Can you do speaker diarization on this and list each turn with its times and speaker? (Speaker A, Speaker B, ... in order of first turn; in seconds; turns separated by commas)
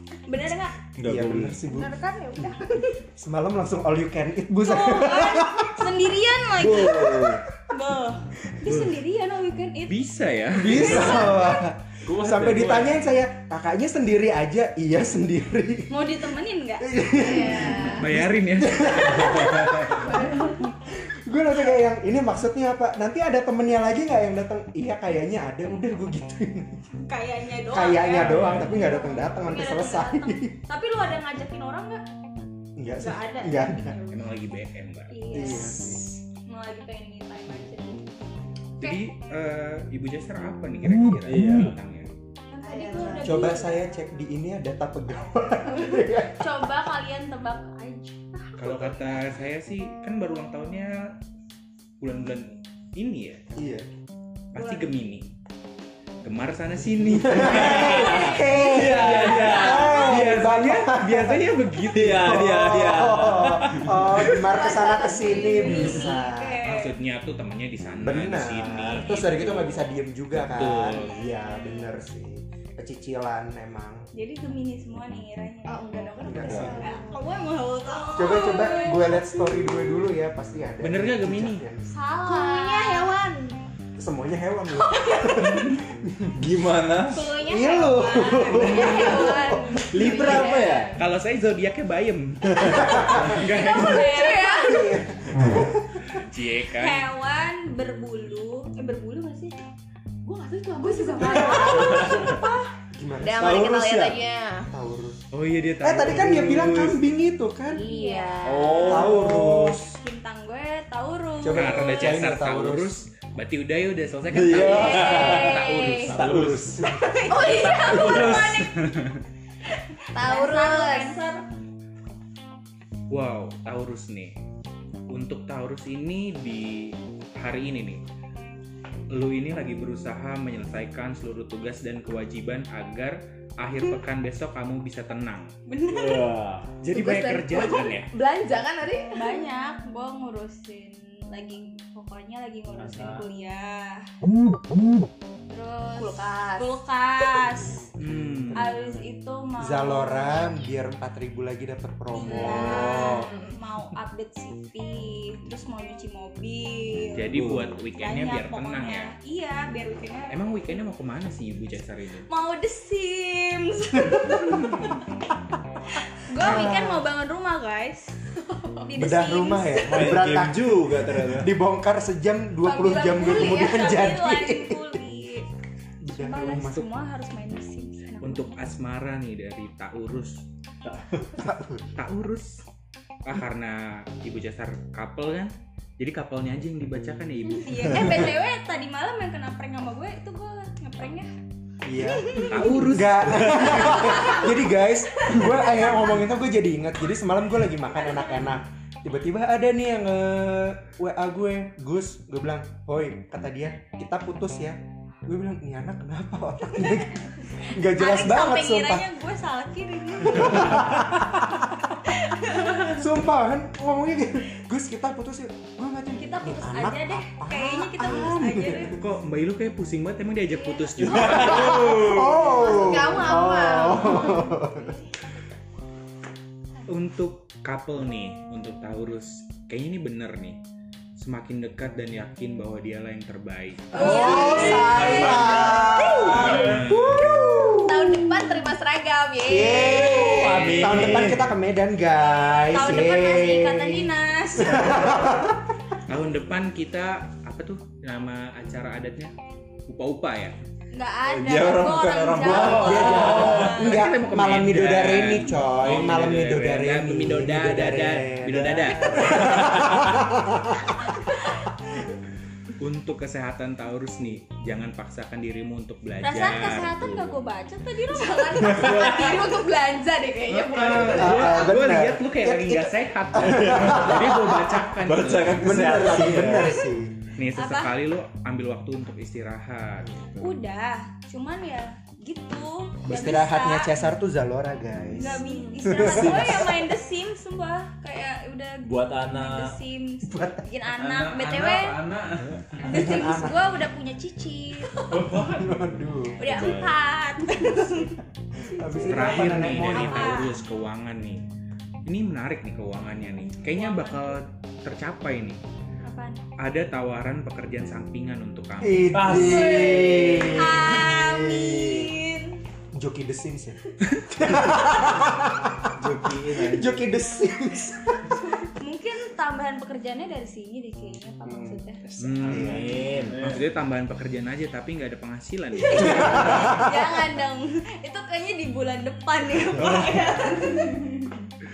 Speaker A: 0.3-0.8, Speaker B: 1.0-1.6, Speaker C: 1.0-2.0, Speaker A: 1.7-3.0, Speaker C: 3.1-5.9, Speaker A: 4.6-9.9, Speaker B: 6.6-7.4, Speaker C: 6.8-7.3, Speaker D: 8.7-8.9, Speaker D: 9.8-11.3, Speaker C: 10.5-16.1, Speaker A: 10.7-11.6, Speaker E: 12.0-13.0, Speaker A: 15.9-18.0, Speaker C: 16.8-26.8, Speaker F: 17.1-18.1, Speaker D: 18.0-19.7, Speaker A: 19.0-20.4, Speaker F: 19.9-20.7, Speaker A: 27.0-32.0, Speaker C: 27.7-30.6, Speaker B: 28.2-28.8, Speaker C: 32.8-34.0, Speaker A: 32.9-34.2, Speaker D: 34.1-35.2, Speaker A: 35.1-38.2, Speaker C: 35.3-36.2, Speaker D: 38.8-42.1, Speaker B: 41.2-41.7, Speaker A: 42.5-43.9, Speaker F: 42.6-43.6, Speaker C: 43.2-46.5, Speaker A: 45.8-48.9, Speaker D: 48.6-51.1, Speaker D: 52.0-53.5, Speaker C: 53.5-53.9, Speaker D: 54.5-55.3, Speaker A: 54.5-54.9, Speaker D: 56.2-58.2, Speaker C: 57.1-66.6, Speaker B: 57.3-60.0, Speaker A: 57.6-60.3, Speaker D: 58.8-62.6, Speaker B: 61.9-64.5, Speaker F: 64.5-66.2, Speaker A: 64.7-67.0, Speaker D: 66.6-69.8, Speaker C: 68.0-74.1, Speaker D: 70.4-71.1, Speaker A: 71.3-71.9, Speaker A: 74.1-79.7, Speaker F: 75.7-77.1, Speaker C: 76.2-76.9, Speaker B: 76.5-76.8, Speaker C: 78.2-81.9, Speaker D: 80.8-81.7, Speaker A: 81.9-83.2, Speaker F: 82.0-83.6, Speaker C: 84.0-86.5, Speaker F: 84.8-85.7, Speaker A: 85.1-85.5, Speaker B: 86.3-87.2, Speaker A: 87.1-89.8, Speaker C: 87.3-90.4, Speaker F: 88.3-91.0, Speaker B: 89.9-90.9, Speaker D: 90.9-94.1, Speaker C: 92.5-93.4, Speaker F: 93.3-95.0, Speaker A: 93.4-94.8, Speaker C: 94.4-96.2, Speaker D: 96.0-97.1, Speaker A: 96.7-99.5, Speaker F: 100.2-102.6, Speaker A: 100.8-102.6, Speaker C: 102.9-105.3, Speaker F: 103.2-104.7, Speaker D: 105.3-106.9, Speaker B: 105.7-106.9, Speaker C: 105.8-107.9, Speaker F: 107.7-109.1, Speaker A: 107.7-108.3, Speaker B: 108.4-109.9, Speaker C: 108.9-110.0, Speaker A: 110.0-112.1, Speaker C: 111.4-113.0, Speaker D: 111.5-116.4, Speaker B: 114.3-116.9, Speaker A: 114.5-116.0, Speaker F: 114.5-116.1, Speaker E: 116.1-116.8, Speaker C: 116.8-117.1, Speaker A: 116.8-118.9, Speaker F: 117.2-118.5, Speaker C: 118.0-118.4, Speaker B: 118.1-118.5, Speaker A: 120.0-121.4, Speaker F: 120.1-121.2, Speaker D: 123.1-124.3, Speaker D: 125.1-128.0, Speaker D: 129.1-135.5, Speaker A: 135.7-136.3, Speaker B: 135.9-136.8, Speaker D: 136.8-138.1, Speaker F: 136.9-139.4, Speaker A: 139.1-144.1, Speaker B: 142.8-143.2, Speaker A: 145.5-147.8, Speaker F: 145.9-146.8, Speaker D: 148.0-148.7, Speaker C: 148.0-148.6, Speaker A: 148.5-150.6, Speaker C: 149.6-153.3, Speaker A: 152.1-157.2, Speaker F: 152.2-153.5, Speaker D: 157.1-159.1, Speaker B: 157.3-157.7, Speaker A: 157.9-160.8, Speaker D: 160.3-162.3, Speaker A: 162.3-165.0, Speaker A: 166.1-168.2, Speaker C: 166.3-167.0, Speaker F: 168.4-168.9, Speaker A: 168.8-169.9, Speaker C: 168.9-175.0, Speaker B: 169.8-171.5, Speaker F: 172.6-173.9, Speaker A: 173.2-175.4, Speaker C: 176.0-176.9, Speaker A: 176.1-178.5, Speaker D: 178.2-180.4, Speaker C: 181.3-181.9, Speaker D: 181.9-182.6, Speaker D: 183.2-188.3, Speaker A: 187.4-191.3, Speaker C: 191.8-209.1, Speaker A: 192.3-192.6, Speaker D: 192.5-194.0, Speaker A: 193.7-194.5, Speaker A: 207.4-213.0, Speaker C: 210.2-211.4, Speaker C: 212.7-219.0, Speaker A: 216.2-218.9, Speaker D: 218.9-221.7, Speaker A: 220.6-221.4, Speaker B: 221.0-222.3, Speaker C: 221.0-225.0, Speaker F: 221.2-225.0, Speaker D: 226.9-230.6, Speaker D: 231.2-234.2, Speaker C: 233.9-238.4, Speaker F: 233.9-236.6, Speaker A: 233.9-235.2, Speaker E: 235.0-236.8, Speaker B: 235.0-235.8, Speaker D: 236.4-237.3, Speaker F: 237.7-240.6, Speaker C: 239.4-245.7, Speaker B: 240.2-241.5, Speaker D: 240.4-241.2, Speaker A: 242.6-245.2, Speaker D: 246.1-249.3, Speaker D: 249.9-250.6, Speaker A: 250.9-253.9, Speaker B: 251.3-253.9, Speaker C: 252.5-261.4, Speaker D: 252.9-259.7, Speaker E: 252.9-253.5, Speaker B: 258.5-260.0, Speaker A: 259.1-259.6, Speaker D: 262.8-267.4, Speaker A: 266.2-268.9, Speaker F: 268.1-271.7, Speaker D: 268.9-269.3, Speaker D: 270.5-275.9, Speaker C: 270.8-274.6, Speaker B: 273.4-276.8, Speaker C: 275.5-277.2, Speaker D: 277.4-280.2, Speaker A: 277.5-277.9, Speaker A: 280.4-284.0, Speaker C: 283.0-286.9, Speaker A: 285.1-291.9, Speaker F: 285.5-286.0, Speaker B: 286.0-286.6, Speaker B: 288.8-289.8, Speaker C: 290.3-290.7, Speaker E: 290.9-293.1, Speaker C: 292.8-293.7, Speaker A: 292.8-295.1, Speaker E: 295.1-295.9, Speaker C: 295.3-296.4, Speaker A: 296.4-300.6, Speaker B: 296.5-296.9, Speaker C: 298.8-300.5, Speaker D: 299.0-301.4, Speaker D: 302.1-305.6, Speaker A: 303.7-304.4, Speaker A: 306.0-306.4, Speaker D: 306.6-309.2, Speaker C: 308.8-312.1, Speaker B: 309.1-309.9, Speaker A: 309.3-312.6, Speaker C: 312.9-318.4, Speaker B: 315.9-317.1, Speaker A: 318.7-322.0, Speaker B: 322.0-323.6, Speaker D: 322.2-326.9, Speaker E: 322.5-323.6, Speaker C: 322.5-322.8, Speaker A: 325.8-331.4, Speaker C: 326.0-326.9